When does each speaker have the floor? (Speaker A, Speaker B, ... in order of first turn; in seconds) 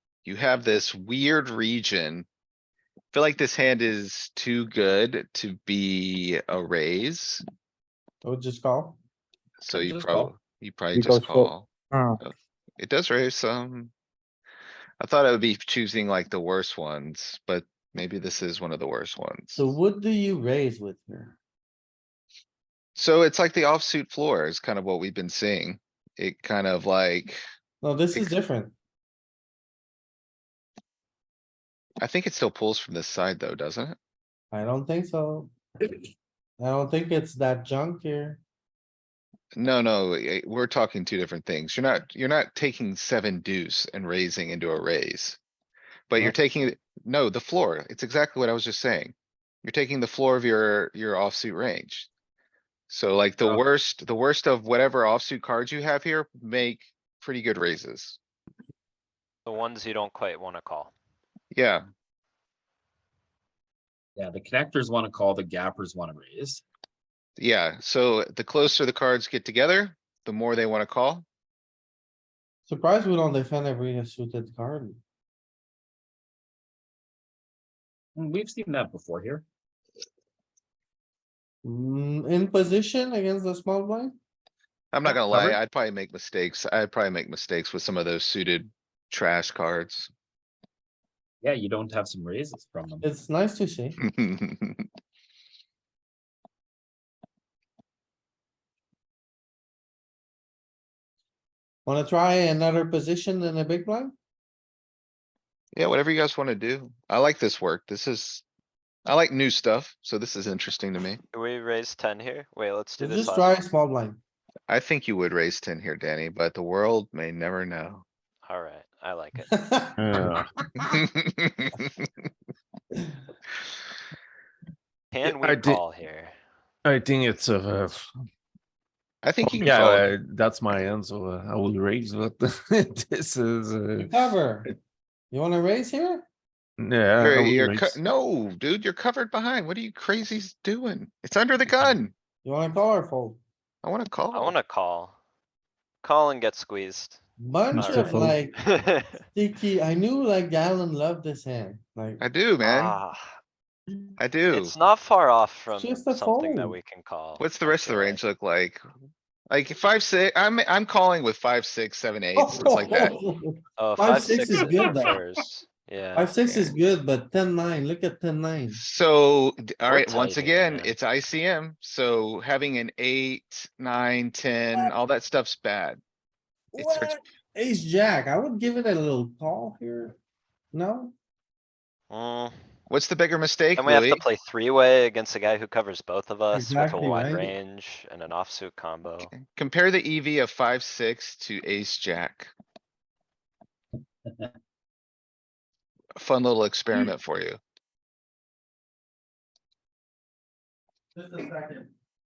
Speaker A: 0.2-2.3, 3.1-7.4, 9.6-11.7, 12.2-13.9, 15.0-19.7, 23.0-27.4, 32.0-34.0, 39.5-45.4, 46.1-52.1, 52.9-58.2, 61.5-61.8, 67.4-71.2, 84.9-90.1, 94.0-94.9, 105.7-108.4, 109.0-111.2, 114.7-118.0, 120.9-121.8, 129.2-130.1, 137.2-142.1, 143.8-144.5, 152.2-153.0, 154.2-154.8, 157.4-158.8, 159.5-163.2, 168.7-176.0, 176.8-177.2, 182.9-184.2, 189.2-192.5, 196.2-197.6
Speaker B: 8.2-9.0, 19.5-21.4, 27.8-28.7, 34.5-36.0, 36.6-38.4, 72.7-75.0, 81.6-84.1, 93.0-94.0, 101.8-104.1, 113.0-114.2, 119.5-120.8, 134.1-134.7, 135.3-136.2, 142.4-143.4, 147.4-148.6, 149.3-152.2, 155.7-156.8, 162.3-165.1, 166.1-168.8, 176.7-180.2, 180.7-181.1, 186.5-187.5, 201.2-201.9
Speaker C: 9.7-10.3, 64.2-66.6, 78.2-79.4, 85.1-85.6, 91.4-93.1
Speaker D: 59.5-60.9, 111.3-113.6, 118.5-119.6, 125.1-126.3, 144.3-145.2, 146.0-147.2, 147.7-149.2, 152.6-153.3, 154.5-158.2, 163.8-166.7, 169.9-170.9, 182.1-182.5, 183.8-189.3
Speaker E: 120.0-120.5, 125.2-125.8, 126.8-128.1, 129.4-134.3, 136.8-138.0, 147.7-148.4